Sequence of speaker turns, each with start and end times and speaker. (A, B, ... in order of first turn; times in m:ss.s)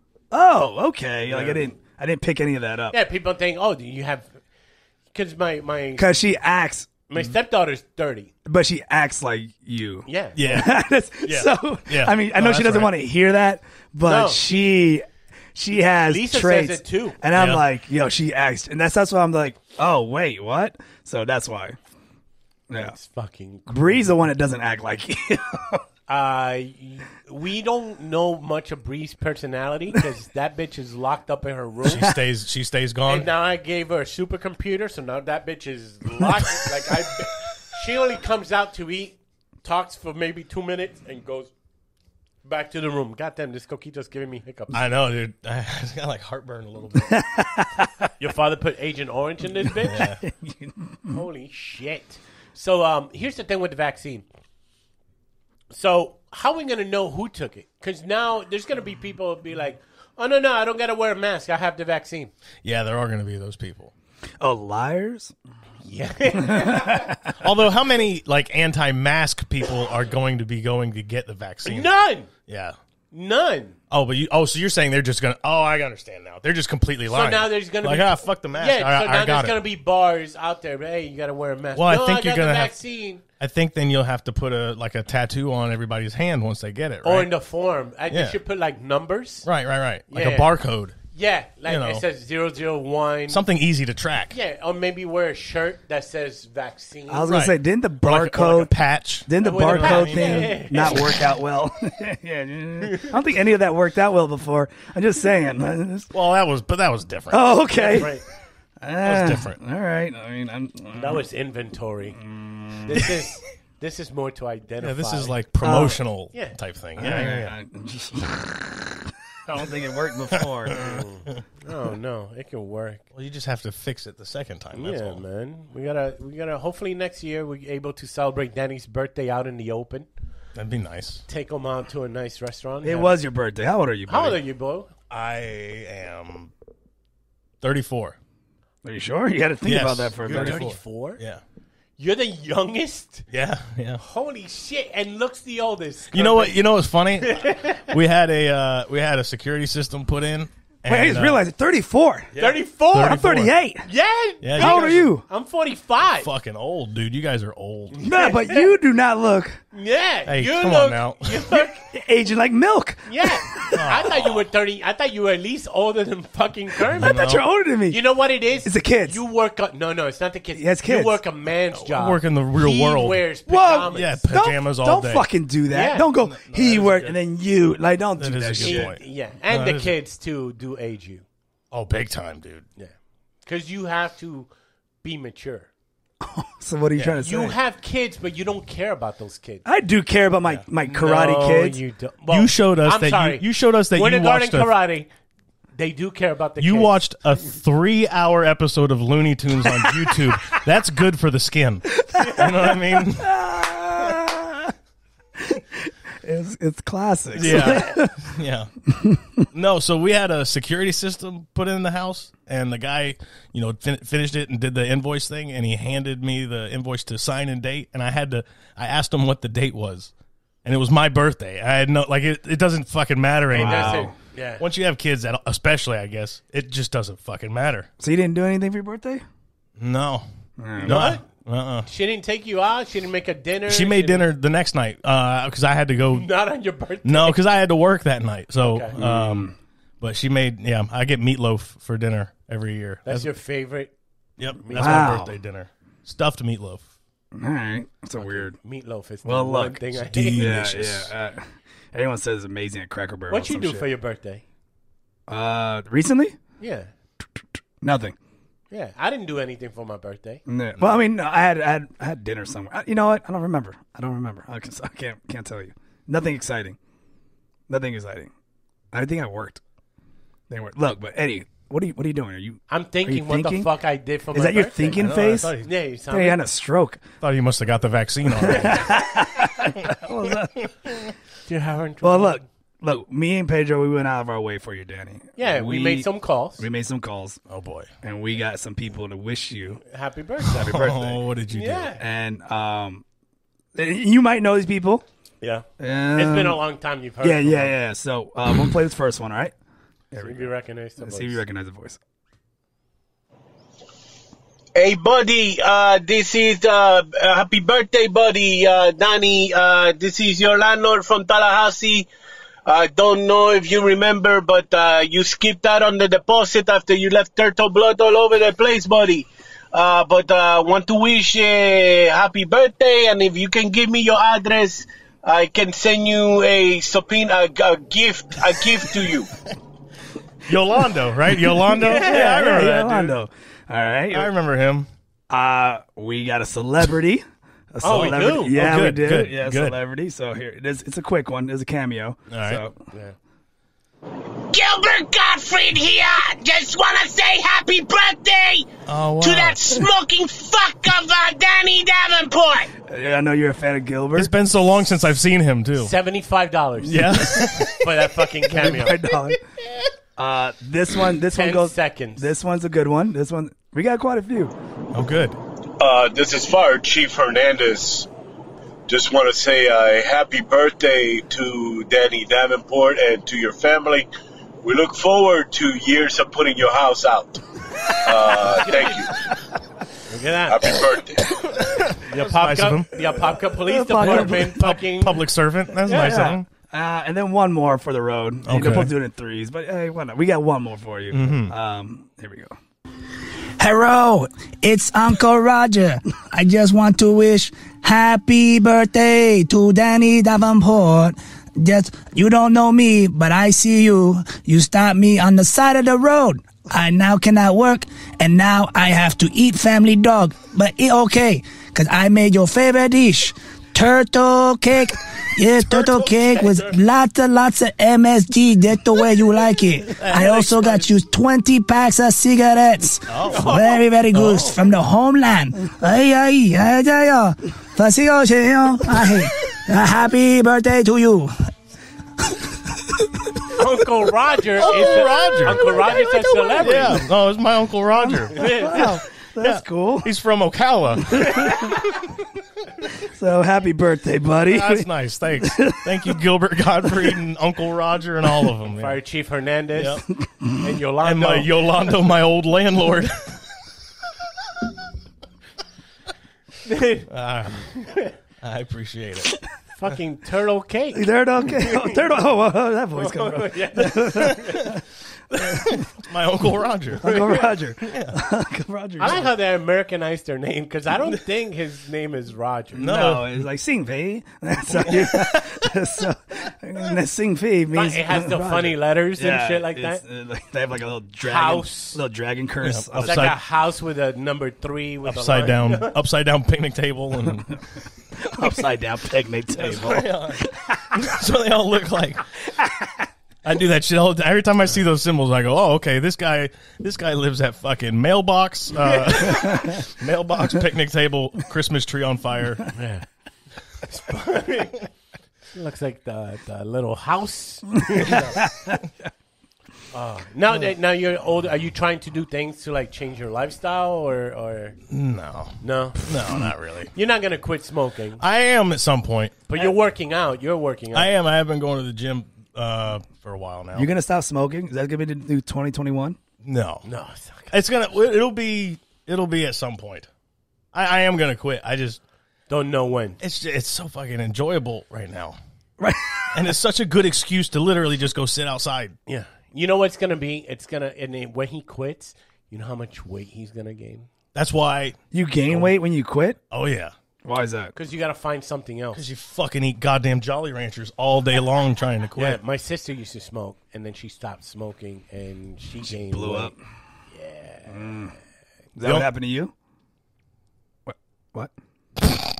0:00.3-0:03.0 A
0:01.3-0:01.6 B
0:02.9-0:04.4 B
0:05.1-0:06.1 B
0:06.0-0:06.9 A
0:07.1-0:08.3 B
0:08.4-0:21.8 A
0:10.0-0:10.4 B
0:10.4-0:13.0 C
0:14.0-0:14.5 B
0:16.0-0:17.2 B
0:17.3-0:17.6 C
0:22.7-0:23.0 A
0:22.7-0:24.2 B
0:23.7-0:25.8 A
0:26.1-0:32.1 B
0:31.8-0:33.3 C
0:33.0-0:41.5 B
0:42.4-0:44.8 B
0:44.7-0:47.2 C
0:47.1-0:48.1 A
0:48.2-0:50.1 B
0:49.8-0:50.2 C
0:50.0-0:51.2 A
0:51.1-0:54.2 B
0:55.7-1:02.3 B
1:02.6-1:03.9 C
1:04.4-1:05.3 A
1:05.8-1:07.1 B
1:06.3-1:07.3 A
1:07.3-1:12.8 C
1:11.6-1:12.3 B
1:13.1-1:13.8 B
1:13.9-1:19.6 C
1:17.1-1:23.2 B
1:21.8-1:22.8 C
1:23.4-1:27.3 C
1:27.0-1:29.5 B
1:28.1-1:28.4 C
1:29.4-1:31.0 C
1:30.1-1:30.5 B
1:31.1-1:33.4 B
1:31.7-1:32.0 C
1:33.3-1:34.4 C
1:34.3-1:37.3 B
1:37.1-1:38.7 A
1:37.3-1:40.9 C
1:39.3-1:46.1 A
1:39.4-1:41.2 B
1:46.1-1:47.5 C
1:47.3-1:48.2 A
1:47.7-1:48.2 B
1:48.8-1:51.2 A
1:49.0-1:49.6 C
1:50.9-1:52.2 B
1:52.2-1:53.2 A
1:52.8-1:55.4 B
1:54.8-1:57.5 C
1:55.6-1:56.0 A
1:57.0-2:01.0 A
2:00.4-2:01.0 C
2:00.7-2:03.0 B
2:03.1-2:05.2 C
2:04.7-2:10.1 B
2:10.6-2:11.2 C
2:11.3-2:13.1 B
2:12.8-2:14.4 A
2:14.1-2:14.9 B
2:15.1-2:16.5 C
2:17.6-2:18.2 C
2:18.8-2:20.7 A
2:19.6-2:21.4 C
2:20.2-2:21.2 B
2:22.0-2:23.3 B
2:23.3-2:24.0 C
2:24.0-2:26.6 B
2:26.1-2:31.4 C
2:27.2-2:27.9 B
2:30.8-2:32.3 A
2:32.3-2:33.5 C
2:32.4-2:33.2 B
2:32.9-2:33.9 A
2:33.8-2:36.3 B
2:34.4-2:35.1 C
2:34.5-2:35.2 A
2:36.2-2:38.1 C
2:37.9-2:38.7 B
2:38.0-2:39.6 A
2:39.7-2:41.8 B
2:40.3-2:41.5 C
2:41.5-2:43.8 A
2:43.1-2:47.2 B
2:43.7-2:44.4 C
2:46.9-2:47.4 C
2:47.0-2:48.0 A
2:47.9-2:54.2 B
2:48.6-2:49.2 A
2:50.5-2:51.2 A
2:51.7-2:53.2 C
2:53.5-2:58.9 A
2:53.9-2:55.2 C
2:55.7-2:56.1 B
2:56.2-2:57.2 C
2:58.2-3:00.0 C
2:58.6-3:01.2 B
3:01.7-3:02.6 C
3:03.4-3:04.5 B
3:05.0-3:05.7 B
3:06.2-3:07.6 A
3:07.2-3:09.6 B
3:09.6-3:11.8 A
3:10.8-3:15.1 B
3:12.3-3:14.7 C
3:15.8-3:17.0 B
3:16.6-3:23.5 C
3:22.1-3:24.7 A
3:22.1-3:22.6 B
3:25.4-3:28.1 A
3:27.4-3:28.7 C
3:27.4-3:28.0 B
3:28.9-3:29.4 A
3:29.5-3:40.1 C
3:40.6-3:44.1 C
3:43.5-3:44.1 A
3:43.5-3:44.6 B
3:44.6-3:47.9 C
3:48.0-3:49.2 A
3:49.8-3:50.2 C
3:50.6-3:51.0 A
3:50.8-3:51.9 C
3:50.8-3:51.2 B
3:51.8-3:54.2 B
3:53.7-3:56.3 C
3:56.1-3:57.4 B
3:57.0-4:03.3 C
3:58.6-3:59.0 B
3:59.0-3:59.6 A
4:03.0-4:03.9 B
4:04.4-4:06.8 C
4:04.6-4:05.2 B
4:04.8-4:05.4 A
4:07.3-4:08.6 A
4:08.2-4:10.7 B
4:09.2-4:09.8 A
4:10.0-4:11.1 C
4:10.4-4:13.9 A
4:13.3-4:14.4 B
4:15.3-4:16.4 A
4:16.6-4:16.9 B
4:17.8-4:18.2 A
4:18.7-4:20.4 B
4:20.4-4:26.8 A
4:27.7-4:28.3 A
4:28.9-4:29.6 A
4:30.5-4:33.7 A
4:32.7-4:35.1 B
4:34.3-4:35.6 A
4:35.0-4:35.7 C
4:35.6-4:36.4 B
4:36.1-4:37.1 A
4:37.2-4:39.0 C
4:38.4-4:40.7 A
4:38.5-4:39.0 B
4:40.6-4:41.1 C
4:41.5-4:42.4 B
4:42.0-4:47.4 A
4:45.4-4:46.6 B
4:47.5-4:47.9 C
4:48.0-4:49.8 A
4:49.8-4:50.8 B
4:50.4-4:51.3 A
4:50.6-4:51.9 C
4:51.5-4:52.0 B
4:52.0-4:53.0 A
4:53.7-4:55.0 A
4:55.4-4:57.7 B
4:55.8-4:56.6 A
4:57.2-4:59.5 A
5:00.1-5:02.0 A
5:00.2-5:01.4 B
5:04.7-5:12.1 D
5:12.6-5:29.3 D
5:30.4-5:33.2 C
5:31.3-5:34.3 A
5:34.1-5:34.9 C
5:35.3-5:42.7 A
5:37.8-5:38.6 B
5:37.9-5:39.8 C
5:42.3-5:42.6 C
5:44.3-5:48.7 D
5:48.8-5:49.6 C
5:49.2-5:52.7 D
5:52.8-5:54.3 A
5:54.1-5:55.9 C
5:55.8-5:59.1 B
5:56.8-5:57.9 C
5:58.5-5:59.4 A
6:00.2-6:04.5 A
6:01.3-6:02.3 B
6:04.9-6:05.4 C
6:05.8-6:08.1 D
6:08.9-6:14.1 D
6:14.6-6:19.3 D
6:18.4-6:19.1 B
6:20.1-6:20.7 B
6:20.4-6:21.4 D
6:21.3-6:23.1 C
6:22.0-6:25.2 B
6:23.5-6:24.6 A
6:24.0-6:26.4 C
6:25.8-6:26.3 B
6:25.9-6:32.6 A
6:28.4-6:28.9 C
6:31.1-6:31.5 C
6:33.6-7:11.3 E
7:00.0-7:00.9 C
7:03.1-7:04.6 C
7:03.3-7:03.8 B
7:12.3-7:13.0 E
7:13.5-7:17.1 B
7:14.6-7:16.0 C
7:16.6-7:22.0 C
7:18.2-7:20.1 A
7:18.3-7:19.0 B
7:21.2-7:21.5 A
7:23.0-7:24.9 A
7:24.4-7:29.0 C
7:25.4-7:26.1 A
7:28.7-7:30.0 B
7:29.7-7:30.0 C
7:30.6-7:31.6 B
7:31.0-7:33.4 C
7:36.6-7:37.1 B
7:37.1-7:37.8 C
7:37.7-7:38.1 B
7:38.4-7:39.4 C
7:39.8-7:42.0 B
7:40.9-7:44.8 A
7:42.9-7:44.8 B
7:44.1-7:44.7 C
7:45.3-7:45.8 A
7:45.3-7:47.2 C
7:47.0-7:49.3 A
7:47.0-7:47.5 B
7:47.8-7:48.2 C
7:49.0-7:52.9 B
7:52.8-7:53.5 C
7:52.8-8:03.4 A
7:54.8-7:55.6 C
7:57.7-8:00.0 B
8:01.2-8:02.0 B
8:02.6-8:03.4 C
8:03.0-8:05.9 B
8:05.0-8:07.6 C
8:08.2-8:10.8 A
8:09.5-8:12.2 C
8:12.6-8:12.9 A
8:13.4-8:22.7 C
8:18.8-8:19.6 B
8:22.7-8:23.0 B
8:23.8-8:24.9 B
8:25.5-8:28.4 B
8:27.9-8:28.8 A
8:29.9-8:34.8 B
8:34.9-8:36.9 C
8:35.6-8:36.1 B
8:36.9-8:38.2 B
8:38.2-8:39.6 C
8:39.5-8:41.1 B
8:40.9-8:43.9 C
8:43.7-8:46.2 A
8:46.4-8:46.8 C
8:46.8-8:47.5 B
8:47.5-8:50.1 C
8:50.7-8:52.0 C
8:52.5-8:53.2 B
8:53.2-8:55.4 C
8:55.8-8:56.4 A
8:56.3-8:59.0 C
8:59.1-9:04.1 B
9:04.3-9:05.7 C
9:05.1-9:06.4 A
9:06.5-9:06.9 C
9:07.2-9:07.7 A
9:07.7-9:09.1 B
9:08.9-9:12.4 C
9:12.2-9:16.5 B
9:15.9-9:16.6 A
9:17.1-9:18.1 B
9:17.7-9:18.1 A
9:18.8-9:19.5 A
9:18.8-9:19.1 C
9:20.8-9:21.5 A